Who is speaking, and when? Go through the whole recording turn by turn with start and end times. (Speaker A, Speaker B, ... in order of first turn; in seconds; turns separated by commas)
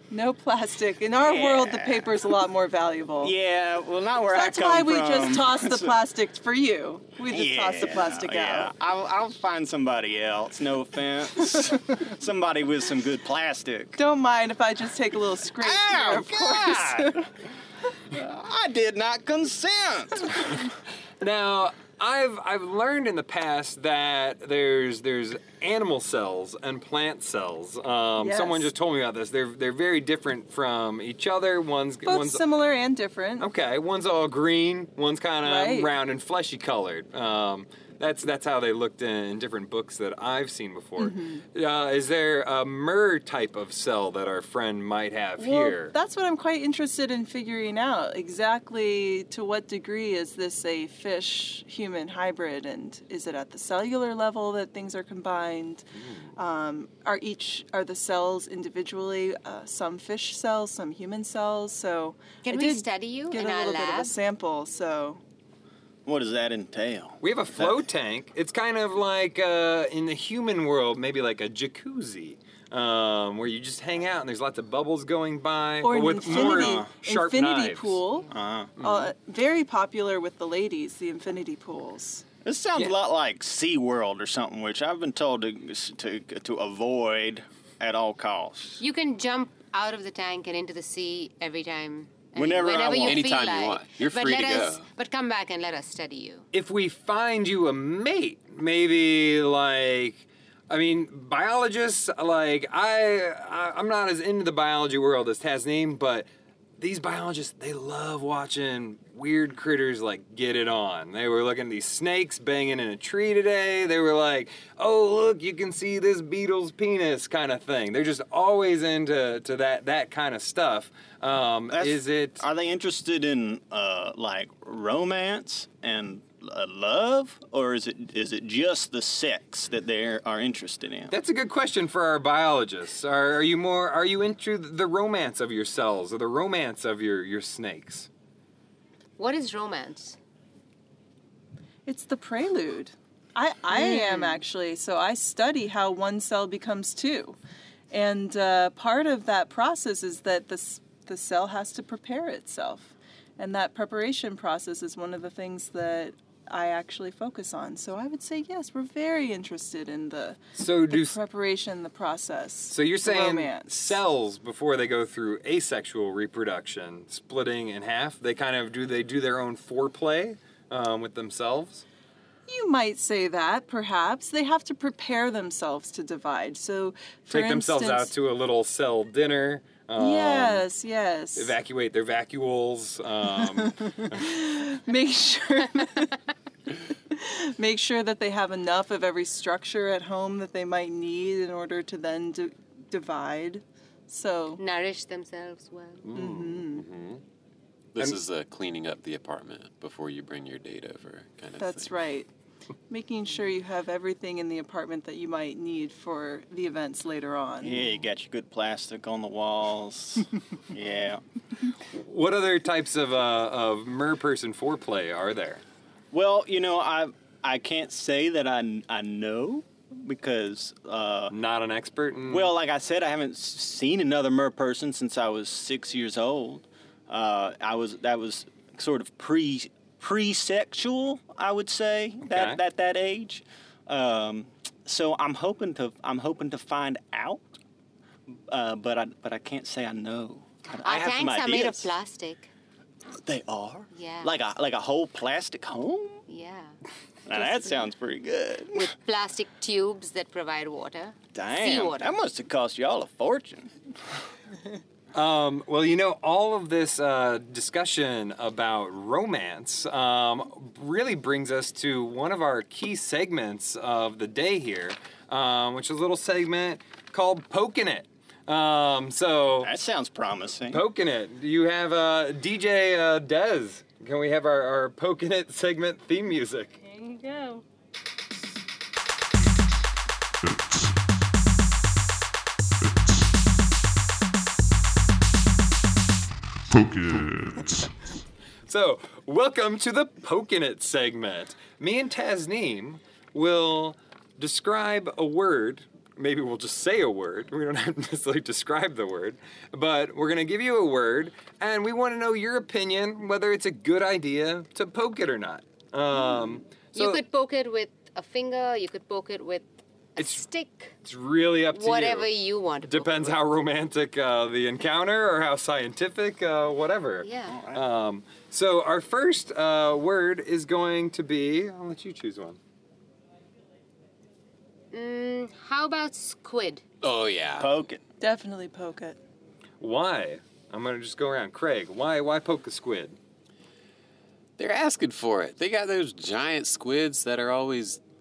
Speaker A: 0.1-3.3, Speaker B: 1.1-2.2, Speaker B: 3.2-6.0, Speaker A: 4.3-8.7, Speaker B: 7.3-13.9, Speaker A: 13.9-17.2, Speaker B: 15.6-17.3, Speaker B: 18.1-20.6, Speaker C: 21.2-32.4, Speaker A: 28.2-28.7, Speaker A: 32.0-33.5, Speaker C: 33.4-45.9, Speaker A: 35.4-35.9, Speaker A: 41.0-41.4, Speaker A: 45.4-55.8, Speaker C: 56.0-56.3, Speaker A: 56.4-65.2, Speaker D: 62.4-64.1, Speaker B: 66.0-67.7, Speaker C: 67.2-78.0, Speaker A: 75.8-82.2, Speaker B: 76.2-76.9, Speaker B: 78.3-78.8, Speaker C: 78.8-79.1, Speaker B: 82.4-88.8, Speaker D: 88.8-96.5, Speaker B: 92.3-93.2, Speaker E: 93.0-94.8, Speaker C: 96.5-106.3, Speaker C: 106.8-122.4, Speaker B: 121.7-131.1, Speaker C: 131.1-138.1, Speaker D: 139.2-140.2, Speaker A: 141.8-147.3, Speaker D: 143.7-144.4, Speaker A: 147.9-164.0, Speaker C: 160.6-161.2, Speaker C: 162.7-171.8, Speaker A: 172.5-178.1, Speaker C: 177.3-180.7, Speaker A: 180.0-181.5, Speaker C: 181.3-184.3, Speaker A: 183.6-186.2, Speaker A: 187.1-194.6, Speaker D: 194.6-196.0, Speaker C: 196.0-197.2, Speaker A: 196.1-196.8, Speaker E: 197.9-201.9, Speaker A: 201.6-202.3, Speaker A: 202.9-207.8, Speaker B: 207.6-211.2, Speaker C: 211.9-215.6, Speaker B: 216.1-221.3, Speaker C: 221.3-222.5, Speaker B: 222.3-237.4, Speaker C: 232.2-232.6, Speaker B: 238.3-241.9, Speaker D: 240.8-242.5, Speaker B: 243.2-246.2, Speaker D: 243.9-244.3, Speaker D: 246.3-246.8, Speaker B: 247.2-248.9, Speaker D: 248.7-252.1, Speaker B: 251.3-253.8, Speaker C: 255.1-269.7, Speaker B: 269.6-270.8, Speaker C: 270.7-276.8, Speaker A: 276.8-277.6, Speaker C: 287.1-287.4, Speaker C: 288.7-307.2, Speaker D: 306.9-310.9, Speaker C: 310.2-310.4, Speaker C: 311.0-312.3, Speaker D: 311.7-313.4, Speaker C: 312.9-322.6, Speaker D: 317.2-317.6, Speaker B: 317.5-317.8, Speaker D: 324.9-326.8, Speaker E: 327.0-327.8, Speaker B: 327.6-328.0, Speaker A: 328.2-329.2, Speaker C: 329.8-333.2, Speaker E: 334.6-338.0